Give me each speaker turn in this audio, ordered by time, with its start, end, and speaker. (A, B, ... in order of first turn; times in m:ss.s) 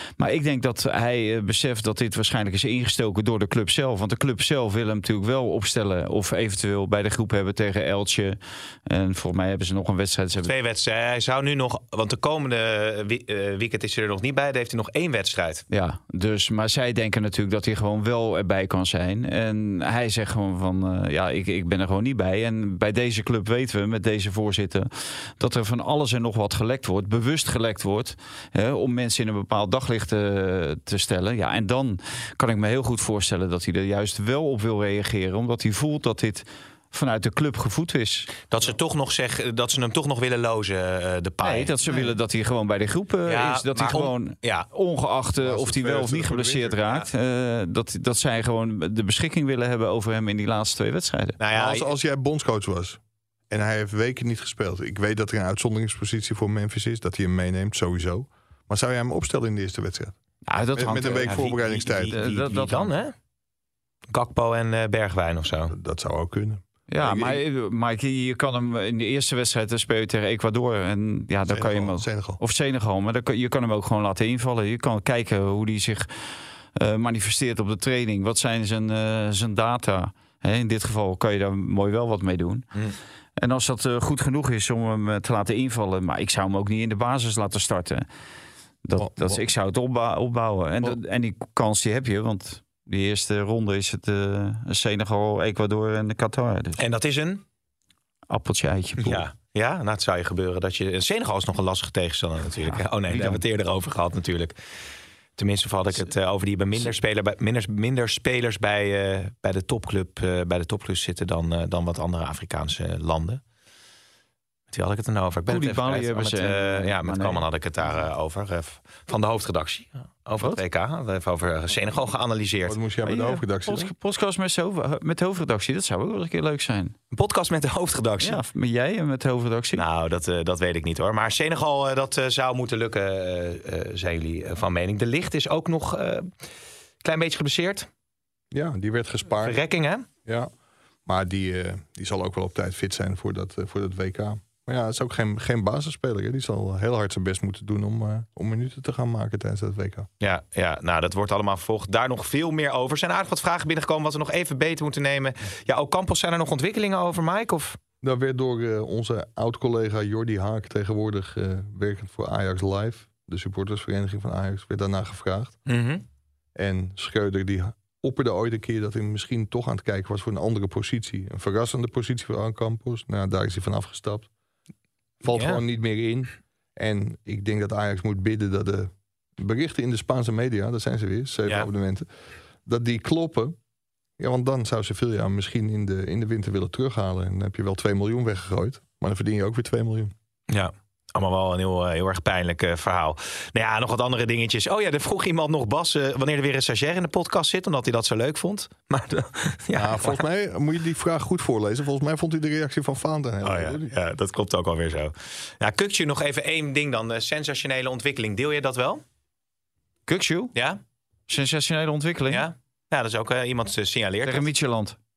0:00.2-0:10.5 A
0:10.4-0:15.6 B
0:15.7-0:38.3 A
0:38.5-0:42.1 B
0:41.4-0:51.4 A
0:43.3-0:44.7 B
0:45.4-0:46.8 C
0:51.4-0:51.9 B
0:51.6-0:53.0 C
0:53.5-1:00.2 C
1:00.5-1:01.6 A
1:00.8-1:02.2 C
1:01.3-1:03.1 B
1:02.1-1:02.9 A
1:04.1-1:05.8 B
1:05.7-1:07.4 C
1:06.9-1:16.1 A
1:11.5-1:12.4 C
1:16.8-1:22.7 A
1:23.4-1:28.0 A
1:28.8-1:36.8 A
1:29.0-1:29.4 C
1:36.8-1:37.4 B
1:38.3-1:39.3 A
1:39.0-1:44.6 B
1:42.6-1:43.4 A
1:45.4-1:53.4 B
1:54.7-2:02.8 B
1:55.5-1:57.4 A
2:02.7-2:03.9 C
2:03.0-2:07.0 A
2:07.1-2:08.4 B
2:08.2-2:09.8 A
2:09.8-2:16.3 B
2:17.0-2:17.9 B
2:18.5-2:19.6 C
2:19.4-2:20.1 B
2:20.2-2:20.5 C
2:21.1-2:30.1 C
2:30.2-2:37.8 B
2:38.0-2:45.6 C
2:45.7-2:46.0 B
2:46.6-2:54.3 C
2:55.2-3:02.1 C
2:55.3-2:55.6 B
3:02.6-3:03.6 C
3:04.2-3:10.1 C
3:10.5-3:20.2 B
3:19.7-3:23.9 C
3:23.4-3:29.0 B
3:30.1-3:30.6 A
3:30.6-3:30.8 B
3:31.3-3:32.5 A
3:32.3-3:34.5 B
3:34.2-3:35.0 A